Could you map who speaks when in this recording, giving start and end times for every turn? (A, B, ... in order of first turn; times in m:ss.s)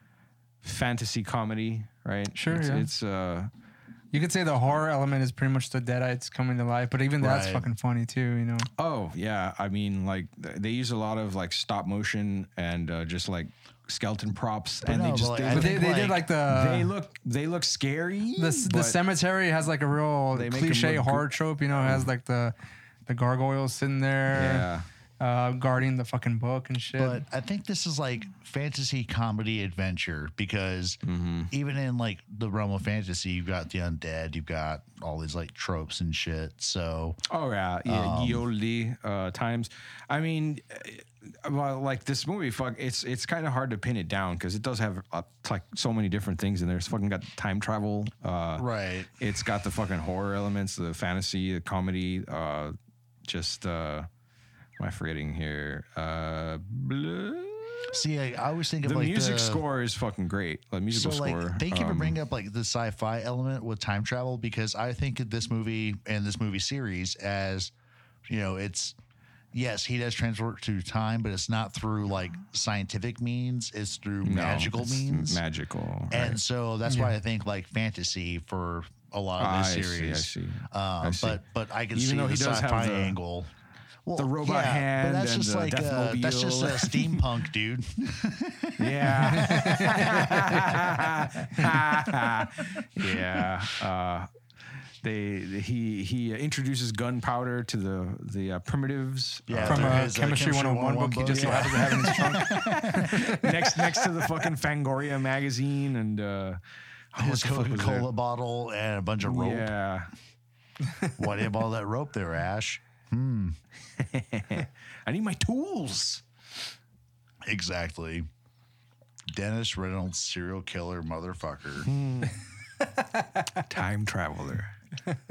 0:00.6-0:03.5 A
0:02.4-0:02.9 B
0:04.1-0:08.7 B
0:07.2-0:07.7 C
0:08.8-0:19.0 A
0:14.8-0:16.2 C
0:15.5-0:16.9 B
0:18.4-0:22.5 B
0:20.3-0:22.1 A
0:23.1-0:24.7 B
0:24.3-0:24.8 A
0:25.2-0:27.2 B
0:27.0-0:31.0 C
0:31.0-0:31.5 A
0:31.5-0:37.2 C
0:37.3-0:48.7 A
0:37.9-0:38.4 C
0:48.6-0:49.1 C
0:49.2-0:52.8 A
0:53.3-0:54.1 A
0:54.8-0:58.0 A
0:57.9-0:59.6 C
0:58.8-1:02.2 A
1:00.9-1:07.7 C
1:08.3-1:09.0 C
1:09.5-1:15.4 C
1:14.2-1:16.4 A
1:16.1-1:23.5 C
1:16.9-1:17.1 B
1:19.4-1:21.4 A
1:21.9-1:23.2 A
1:24.0-1:31.8 C
1:24.2-1:27.2 A
1:28.8-1:34.3 A
1:29.5-1:29.9 B
1:33.0-1:33.4 C
1:35.0-1:40.1 A
1:39.5-1:43.5 C
1:39.7-1:43.1 B
1:41.3-1:46.6 A
1:47.1-1:48.1 A
1:47.2-1:49.7 C
1:49.2-1:50.1 A
1:51.2-1:53.6 C
1:54.0-1:56.2 A
1:57.5-1:58.3 C
1:59.3-2:01.9 C
2:01.8-2:02.4 A
2:03.6-2:04.8 A